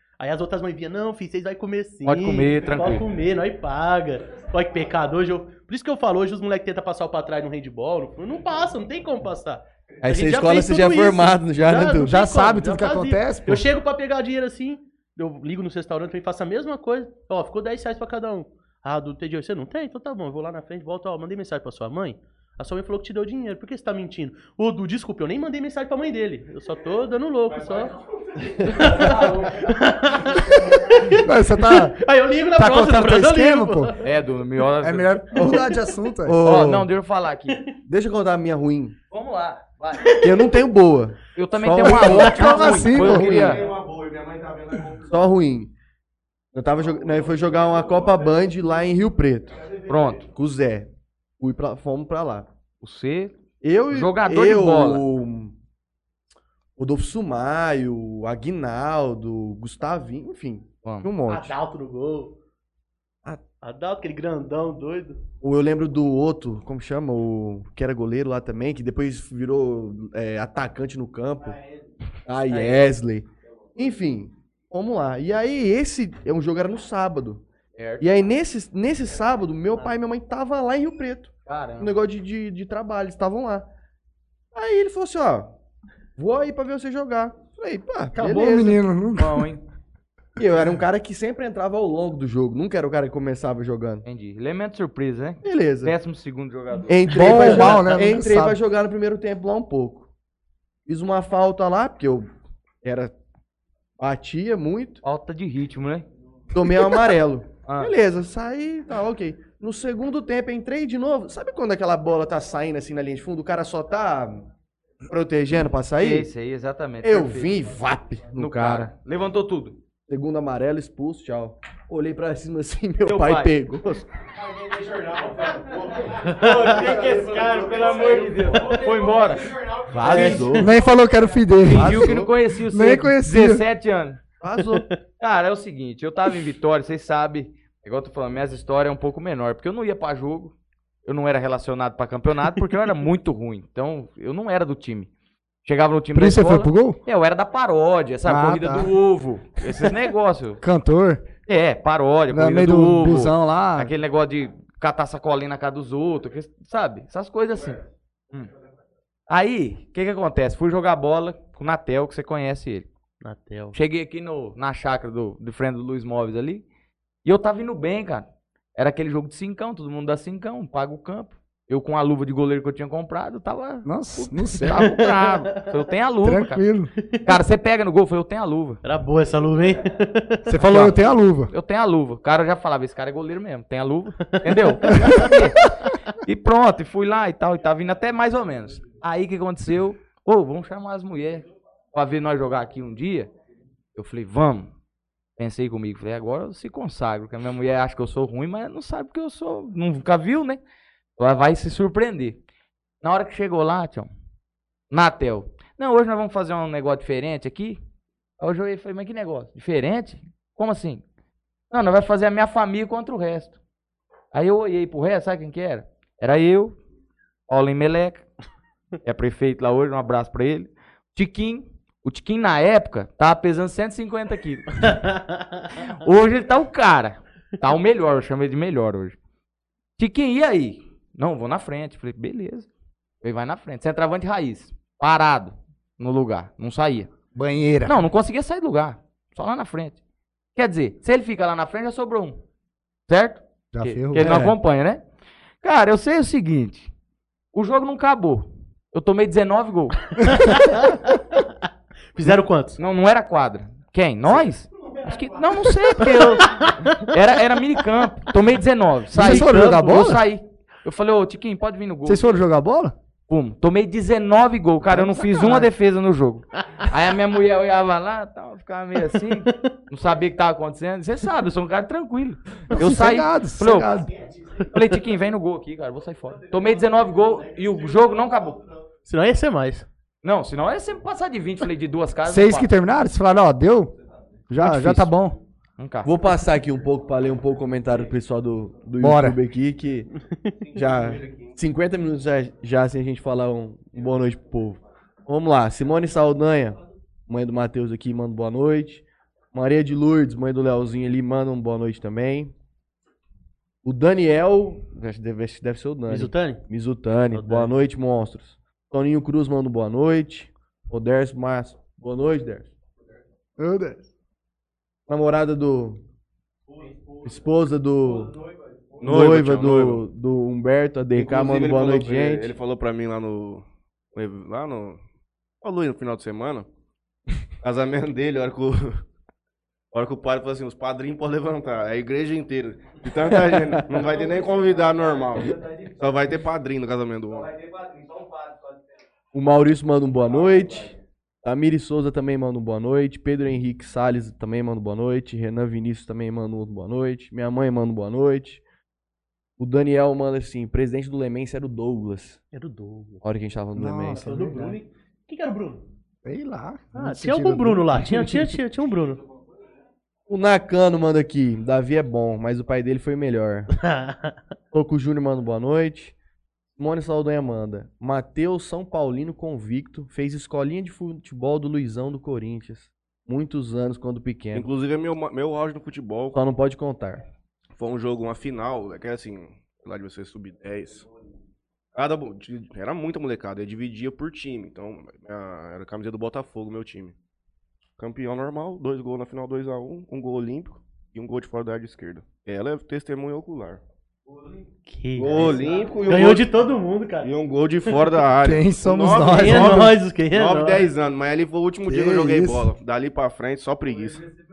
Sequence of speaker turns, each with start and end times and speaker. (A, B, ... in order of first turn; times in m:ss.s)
0:00.2-0:27.9 A
0:02.0-0:03.1 B
0:10.0-0:12.1 C
0:12.0-0:13.7 D
0:27.8-0:28.7 E
0:28.6-0:30.8 B
0:28.6-0:34.0 A
0:31.1-0:32.0 D
0:32.5-0:33.9 D
0:34.0-0:35.2 B
0:34.8-0:36.4 D
0:35.3-0:36.0 A
0:35.3-0:35.7 C
0:36.2-0:36.9 C
0:36.4-0:37.7 B
0:37.8-0:39.0 C
0:39.1-0:40.2 B
0:40.0-0:40.3 A
0:40.2-0:42.4 C
0:41.3-0:43.7 B
0:41.8-0:43.6 D
0:42.4-0:42.8 A
0:42.9-0:45.2 E
0:45.1-0:45.7 C
0:46.5-0:52.5 C
0:46.8-0:48.0 E
0:49.8-0:50.3 B
0:52.8-0:53.3 B
0:53.6-0:55.5 C
0:53.9-0:55.0 B
0:56.8-1:01.6 C
1:00.8-1:01.1 B
1:01.3-1:02.3 A
1:03.6-1:05.2 A
1:05.4-1:11.6 C
1:12.2-1:17.4 C
1:12.5-1:12.8 A
1:17.8-1:18.0 B
1:18.0-1:23.7 C
1:21.4-1:21.9 B
1:24.5-1:25.5 C
1:26.2-1:28.8 C
1:28.1-1:29.5 D
1:29.2-1:29.6 B
1:30.4-1:34.0 C
1:34.0-1:37.8 B
1:35.4-1:36.0 C
1:36.8-1:40.1 C
1:37.1-1:38.6 D
1:40.8-1:42.3 C
1:42.8-1:43.1 C
1:44.0-1:45.0 C
1:45.0-1:46.0 B
1:46.5-1:54.4 C
1:47.6-1:47.9 B
1:55.0-1:56.3 C
1:56.0-1:57.5 B
1:57.0-1:58.9 C
1:58.3-1:59.8 B
2:00.1-2:04.1 C
2:03.0-2:03.5 B
2:04.5-2:08.3 E
2:06.3-2:06.8 A
2:06.4-2:10.5 B
2:09.9-2:10.8 C
2:09.9-2:10.7 A
2:10.5-2:13.6 D
2:11.6-2:14.2 B
2:11.7-2:12.3 C
2:14.4-2:14.8 C
2:14.6-2:15.0 A
2:15.2-2:20.5 B
2:21.0-2:25.1 B
2:25.6-2:30.6 B
2:26.1-2:27.0 D
2:28.2-2:28.9 D
2:30.6-2:31.3 D
2:31.4-2:38.5 B
2:32.3-2:33.9 D
2:39.3-2:42.9 B
2:43.2-2:43.8 A
2:43.7-2:46.6 B
2:47.2-2:56.6 B
2:53.8-2:54.9 D
2:54.8-2:55.7 A
2:56.2-2:56.9 D
2:57.0-2:57.3 A
2:57.2-2:58.8 B
2:58.8-3:00.6 A
3:00.5-3:01.5 D
3:00.6-3:13.3 B
3:04.3-3:05.2 A
3:04.9-3:05.4 D
3:13.9-3:14.7 B
3:15.4-3:20.6 B
3:21.2-3:22.4 B
3:23.0-3:24.1 B
3:24.9-3:27.8 B
3:28.4-3:31.0 B
3:31.7-3:33.6 B
3:34.3-3:36.8 B
3:37.5-3:38.2 B
3:39.0-3:45.1 B
3:44.9-3:45.6 A
3:45.8-3:49.2 B
3:50.0-3:52.7 B
3:53.2-3:57.1 B
3:57.3-3:58.0 D
3:57.8-4:00.0 B
4:00.5-4:02.4 B
4:03.1-4:05.0 B
4:03.7-4:04.6 D
4:05.6-4:06.9 B
4:07.5-4:10.4 B
4:10.2-4:11.4 A
4:12.1-4:12.8 A
4:12.8-4:22.3 B
4:16.1-4:17.1 A
4:19.1-4:20.2 D
4:19.2-4:20.2 A
4:22.0-4:22.9 D
4:23.3-4:34.0 B
4:24.9-4:25.7 D
4:29.2-4:29.7 A
4:32.7-4:34.2 D
4:34.7-4:38.6 B
4:39.0-4:39.9 A
4:40.2-4:42.7 B
4:42.2-4:43.9 D
4:44.5-4:45.4 D
4:45.8-4:46.1 B
4:46.0-4:50.1 C
4:49.0-4:49.4 D
4:50.7-4:51.5 E
4:50.7-5:02.5 C
5:03.8-5:12.7 C
5:06.1-5:06.6 A
5:07.3-5:07.7 A
5:13.6-5:14.0 D
5:15.1-5:16.0 C
5:17.2-5:18.3 C
5:19.0-5:20.0 E
5:19.0-5:22.5 C
5:21.2-5:25.0 E
5:25.6-5:26.7 E
5:27.6-5:29.0 E
5:29.9-5:37.5 E
5:39.3-5:48.6 C
5:49.6-5:52.4 C
5:52.5-5:53.2 A
5:53.2-5:54.3 C
5:53.8-5:54.8 D
5:54.2-5:55.8 A
5:56.2-5:58.1 D
5:56.9-5:59.2 A
6:00.3-6:03.7 C
6:03.8-6:04.3 A
6:04.7-6:06.1 C
6:06.7-6:14.7 C
6:14.5-6:16.4 E
6:16.3-6:17.2 C
6:17.8-6:21.1 E
6:21.9-6:27.1 E
6:28.0-6:33.8 E
6:34.8-6:37.3 A
6:35.2-6:36.5 E
6:37.2-6:44.2 E
6:38.4-6:40.0 D
6:39.3-6:40.9 A
6:41.9-6:42.7 D